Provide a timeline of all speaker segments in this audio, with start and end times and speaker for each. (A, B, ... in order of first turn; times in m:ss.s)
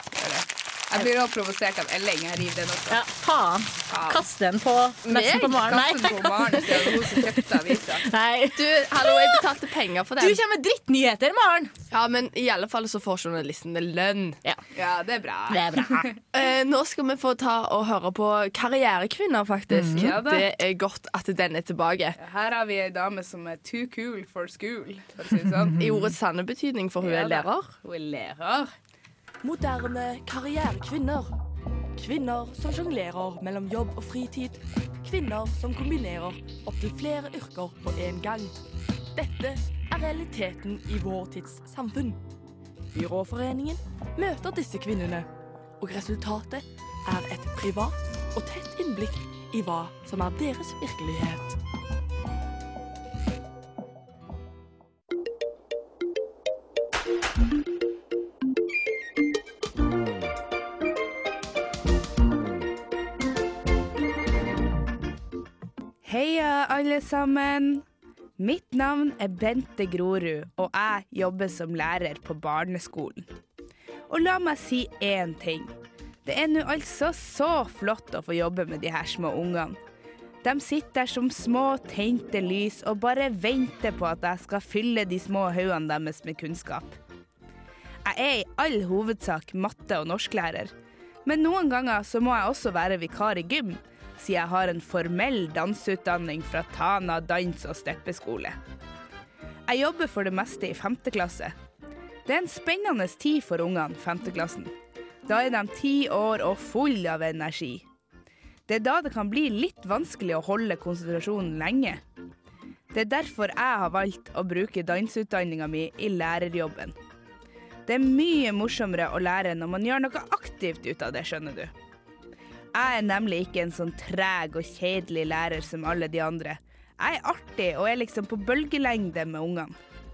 0:00.1-0:03.0 A
0:02.9-0:07.4 B
0:03.9-0:04.2 A
0:05.0-0:05.6 C
0:05.6-0:08.0 A
0:08.0-0:09.4 B
0:08.5-0:10.4 C
0:10.2-0:11.7 B
0:11.9-0:14.4 C
0:14.7-0:16.1 A
0:15.5-0:16.1 B
0:16.3-0:22.2 C
0:19.7-0:20.1 B
0:20.0-0:20.4 A
0:22.2-0:25.8 A
0:25.8-0:26.1 B
0:25.8-0:27.7 C
0:27.0-0:28.7 A
0:29.4-0:31.3 C
0:32.0-0:38.6 C
0:39.1-0:42.2 C
0:42.9-0:45.3 C
0:45.8-0:51.5 C
1:06.0-1:07.8 A
1:08.4-1:13.2 A
1:14.1-1:15.7 A
1:16.2-1:19.8 A
1:20.4-1:27.0 A
1:28.0-1:30.7 A
1:31.2-1:38.6 A
1:39.7-1:41.5 A
1:42.2-1:44.7 A
1:45.2-1:47.8 A
1:48.7-1:52.0 A
1:52.9-1:56.9 A
1:57.9-2:01.7 A
2:02.8-2:09.8 A